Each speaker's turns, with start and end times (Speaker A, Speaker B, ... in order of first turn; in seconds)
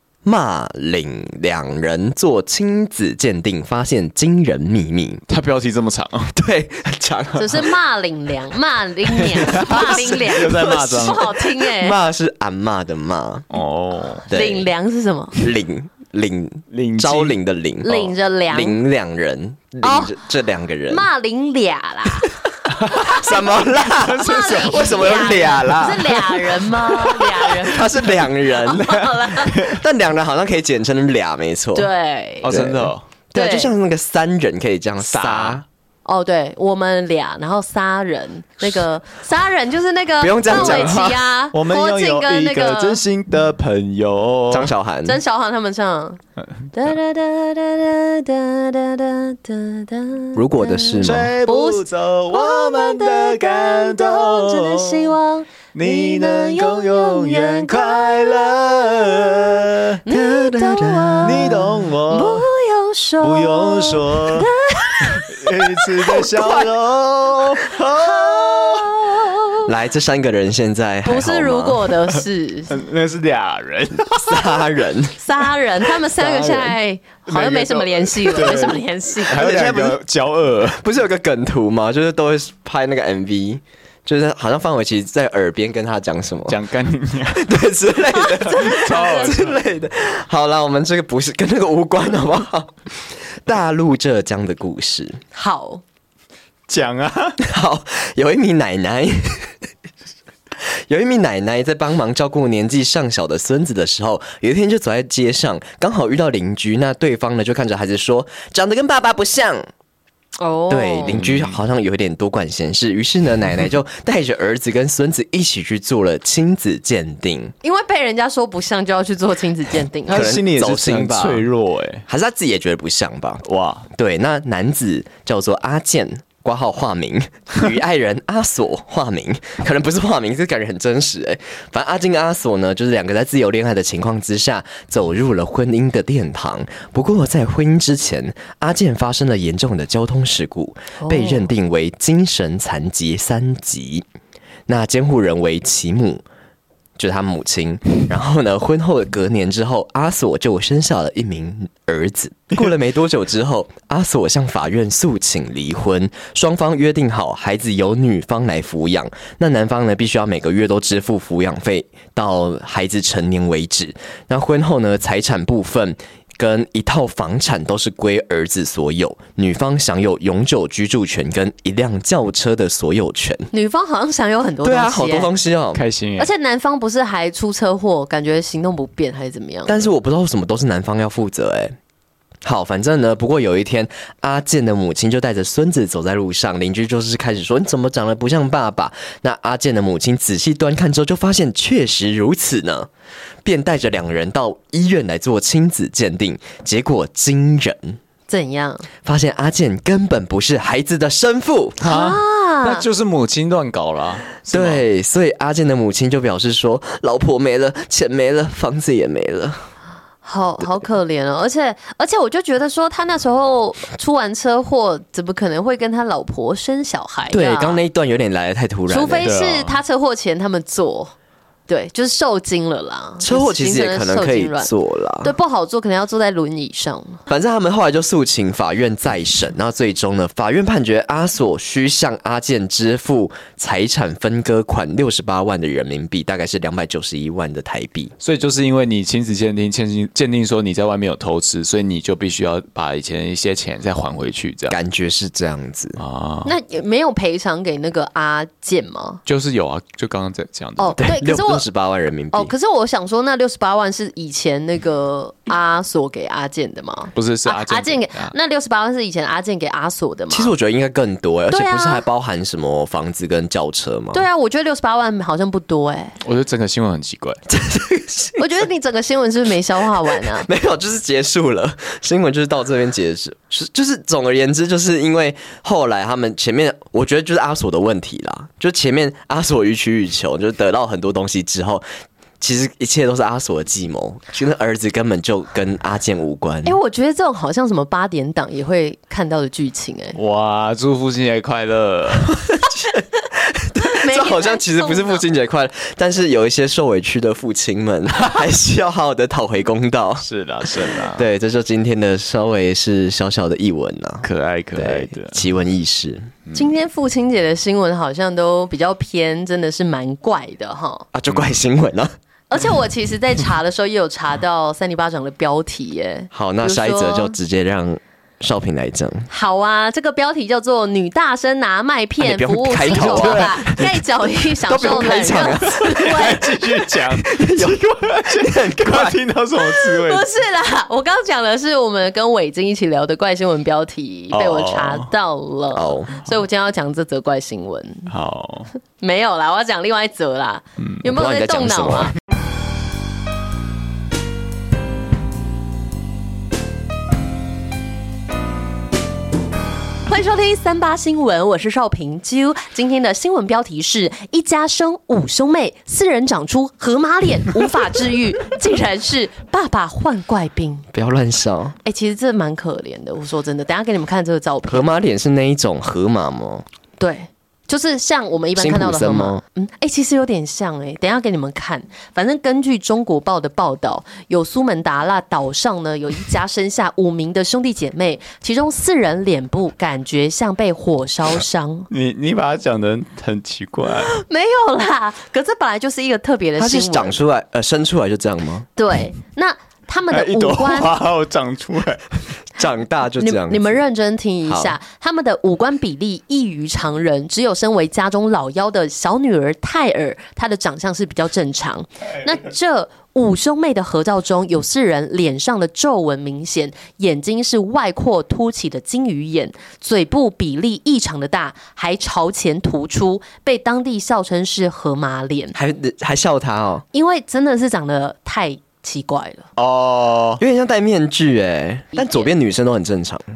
Speaker A: 0.2-5.2, 6.3-7.7, 9.3-13.5, 14.3-14.7, 15.3-21.1, 22.9-31.9, 32.4-35.6, 40.2-41.2, 44.5-45.2, 50.3-51.3, 60.1-61.6, 69.7-71.8, 74.2-75.1, 79.3-80.0, 80.8-86.6, 87.3-95.2, 97.4-99.5, 100.6-109.6, 110.7-117.5, 120.1-121.5, 122.1-144.1, 144.7-146.2, 147.0-173.5, 174.6-175.8, 179.7-181.8, 182.4-192.9, 193.4-198.0, 199.0-201.8, 204.5-209.6, 217.3-219.3, 223.2-225.3, 227.3-238.1, 244.7-246.0, 251.0-252.5, 260.3-264.2, 267.5-268.5, 270.1-281.8, 282.4-286.8, 292.5-306.3, 311.1-312.1, 316.3-319.3, 322.2-323.9, 324.7-326.3, 327.1-329.2, 335.7-336.1, 341.0-342.1, 360.9-361.8, 364.7-366.6, 368.6-369.4, 386.6-388.7, 392.6-393.8, 394.4-394.8, 415.5-416.8, 420.4-423.2
Speaker B: 5.3-6.3, 9.3-11.3, 13.5-14.3, 16.7-17.4, 22.7-25.5, 28.0-29.8, 32.4-33.0, 35.0-35.6, 40.5-41.0, 41.5-44.7, 51.0-55.1, 55.7-60.0, 61.2-62.5, 63.2-64.5, 65.0-69.0, 72.2-74.6, 76.2-76.7, 77.2-80.8, 86.5-87.5, 88.4-89.6, 96.7-97.4, 111.1-111.6, 120.1-122.0, 123.4-123.8, 175.7-176.3, 201.8-204.8, 219.2-219.8, 238.2-244.8, 246.0-246.5, 249.2-251.0, 257.1-258.3, 266.2-267.4, 290.1-292.4, 300.2-301.3, 304.2-305.4, 306.4-306.7, 322.9-323.9, 325.6-330.3, 334.3-335.1, 338.1-338.7, 381.9-384.1, 390.1-392.1, 419.6-420.4
Speaker C: 7.3-12.0, 14.3-15.4, 17.8-18.8, 19.8-20.2, 20.9-29.6, 31.7-32.5, 33.3-33.7, 36.0-43.0, 45.0-46.2, 46.7-66.3, 67.9-69.7, 71.0-72.8, 75.2-79.4, 88.1-89.4, 95.3-95.8, 110.4-111.2, 117.6-120.3, 141.0-141.5, 173.5-175.3, 176.2-179.9, 198.3-198.9, 201.8-202.8, 210.2-217.8, 218.9-221.1, 221.7-224.7, 225.2-227.2, 246.4-249.2, 250.8-251.6, 252.3-260.5, 261.5-262.0, 264.1-266.2, 268.4-270.5, 286.6-290.2, 293.8-295.2, 306.5-311.1, 312.5-317.4, 319.3-326.6, 329.6-338.1, 339.0-342.1, 350.1-360.9, 361.8-364.9, 367.0-381.9, 384.0-387.2, 388.8-390.9, 393.2-415.6, 416.9-419.5, 421.9-422.3